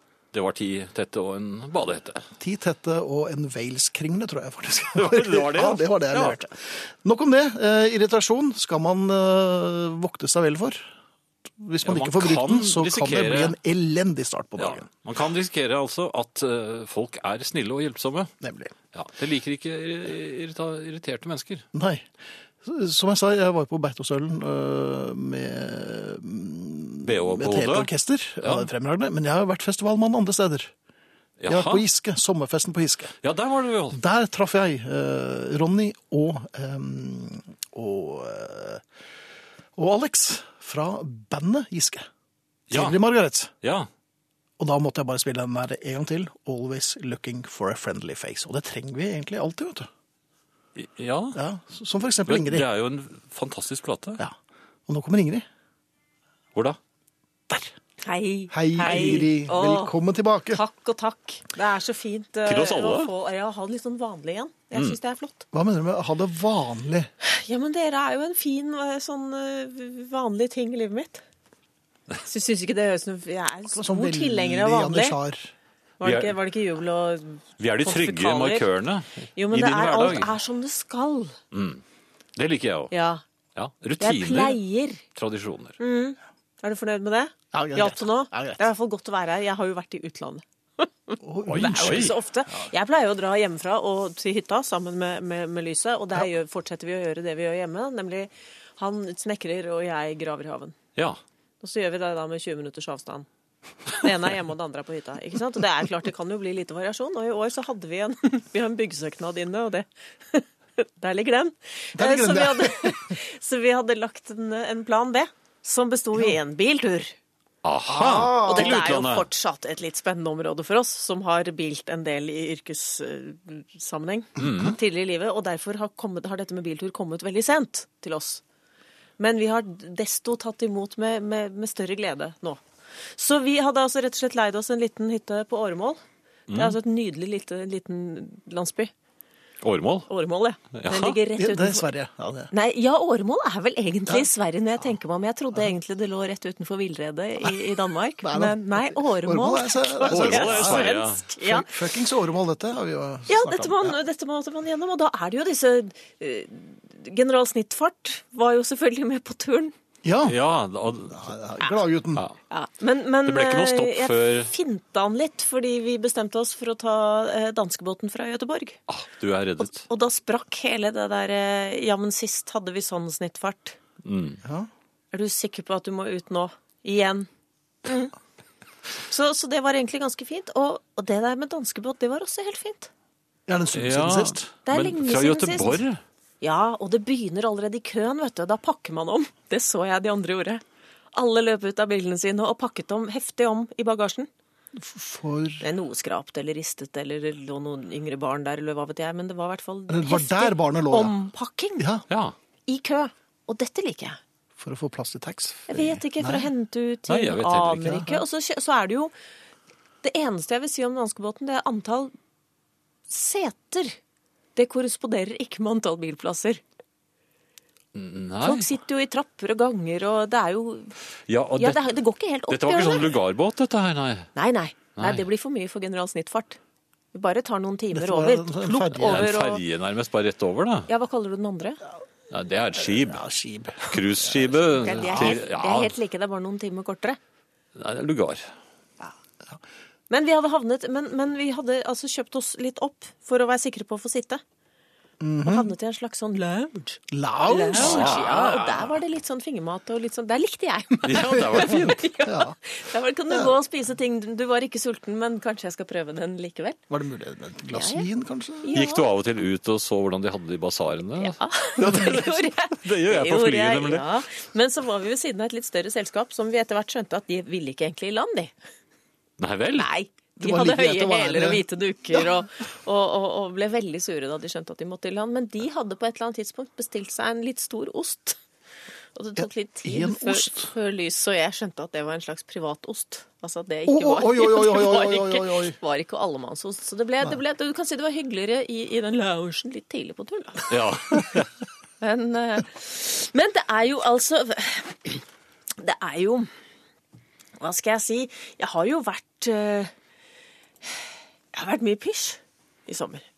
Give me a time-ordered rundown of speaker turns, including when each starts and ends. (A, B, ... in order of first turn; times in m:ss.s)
0:00.3-0:02.3 A
0:02.4-0:10.9 B
0:04.9-0:06.4 A
0:11.6-0:14.9 B
0:11.8-0:13.6 A
0:14.6-0:18.3 A
0:18.4-0:18.7 B
0:18.9-0:21.6 A
0:21.7-0:22.1 B
0:22.6-0:30.7 B
0:27.0-0:27.9 A
0:28.4-0:28.7 A
0:31.4-0:31.8 A
0:31.5-0:33.1 B
0:33.2-0:34.0 A
0:33.9-0:38.8 B
0:39.8-0:42.1 B
0:42.7-0:43.0 A
0:42.7-0:43.5 B
0:43.6-0:43.9 A
0:44.6-0:49.9 B
0:50.7-0:51.4 A
0:51.3-0:52.6 B
0:52.3-0:54.2 A
0:54.9-0:55.4 B
0:58.0-0:59.9 C
0:58.5-1:00.6 B
1:00.5-1:05.4 C
1:02.4-1:03.1 A
1:05.5-1:07.1 B
1:07.2-1:11.2 C
1:12.2-1:15.2 C
1:13.7-1:15.5 B
1:16.0-1:18.7 C
1:16.0-1:16.4 A
1:17.6-1:20.3 A
1:19.4-1:21.4 C
1:21.5-1:21.8 A
1:22.3-1:22.9 A
1:22.9-1:23.2 C
1:23.5-1:24.6 A
1:24.0-1:25.0 C
1:25.1-1:25.8 A
1:25.8-1:40.8 C
1:27.5-1:28.6 B
1:31.2-1:32.7 B
1:31.5-1:32.2 A
1:41.6-1:43.2 C
1:43.9-1:57.1 C
1:51.9-1:53.1 B
1:57.6-1:59.3 A
1:57.9-1:58.8 B
1:58.3-2:08.4 C
2:04.4-2:04.8 A
2:09.2-2:18.9 C
2:16.5-2:16.8 A
2:19.6-2:20.1 A
2:20.1-2:21.8 C
2:20.7-2:21.2 A
2:21.3-2:22.5 B
2:22.5-2:31.8 C
2:28.2-2:30.8 B
2:30.1-2:31.2 A
2:31.4-2:34.0 B
2:33.3-2:39.7 C
2:40.0-2:40.4 B
2:40.2-2:41.3 A
2:41.1-2:42.2 B
2:42.5-2:48.8 C
2:43.2-2:44.5 A
2:48.9-2:49.8 A
2:49.8-2:53.8 C
2:54.0-2:54.4 A
2:54.4-2:54.7 B
2:55.1-2:57.3 C
2:57.8-2:58.1 C
2:59.0-3:02.9 C
3:03.5-3:04.5 B
3:03.7-3:06.0 A
3:04.6-3:05.8 C
3:06.4-3:10.6 C
3:11.1-3:14.3 C
3:14.8-3:15.6 B
3:15.6-3:21.8 C
3:19.9-3:21.2 B
3:21.8-3:22.0 B
3:22.1-3:22.3 A
3:22.7-3:24.2 C
3:24.6-3:26.5 B
3:25.7-3:29.1 C
3:27.1-3:28.1 A
3:27.9-3:28.2 B
3:30.0-3:32.1 C
3:33.1-3:34.0 C
3:34.6-3:36.6 C
3:37.9-3:38.7 A
3:38.4-3:40.9 C
3:41.3-3:41.8 A
3:41.6-3:43.1 C
3:42.5-3:44.3 A
3:44.4-3:46.6 C
3:45.0-3:45.2 A
3:47.1-3:49.6 C
3:47.9-3:49.3 B
3:49.0-3:50.9 A
3:50.9-3:51.8 C
3:52.3-3:53.2 A
3:53.0-3:55.4 B
3:53.8-3:55.9 A
3:54.8-3:57.2 C
3:57.7-3:58.5 A
4:00.1-4:04.4 C
4:05.2-4:05.7 B
4:05.4-4:16.8 C
4:07.1-4:08.2 B
4:07.7-4:09.0 A
4:11.0-4:12.0 A
4:12.2-4:12.5 B
4:16.9-4:18.8 B
4:17.7-4:18.1 C
4:18.6-4:19.1 C
4:18.7-4:24.1 A
4:21.2-4:28.5 C
4:29.4-4:29.9 A
4:29.8-4:38.4 C
4:30.4-4:32.3 B
4:39.1-4:51.3 C
4:39.4-4:40.7 B
4:43.9-4:45.8 B
4:50.7-4:51.5 A
4:52.0-4:55.2 C
4:55.8-4:56.5 C
4:57.6-4:59.9 C
5:00.8-5:03.2 C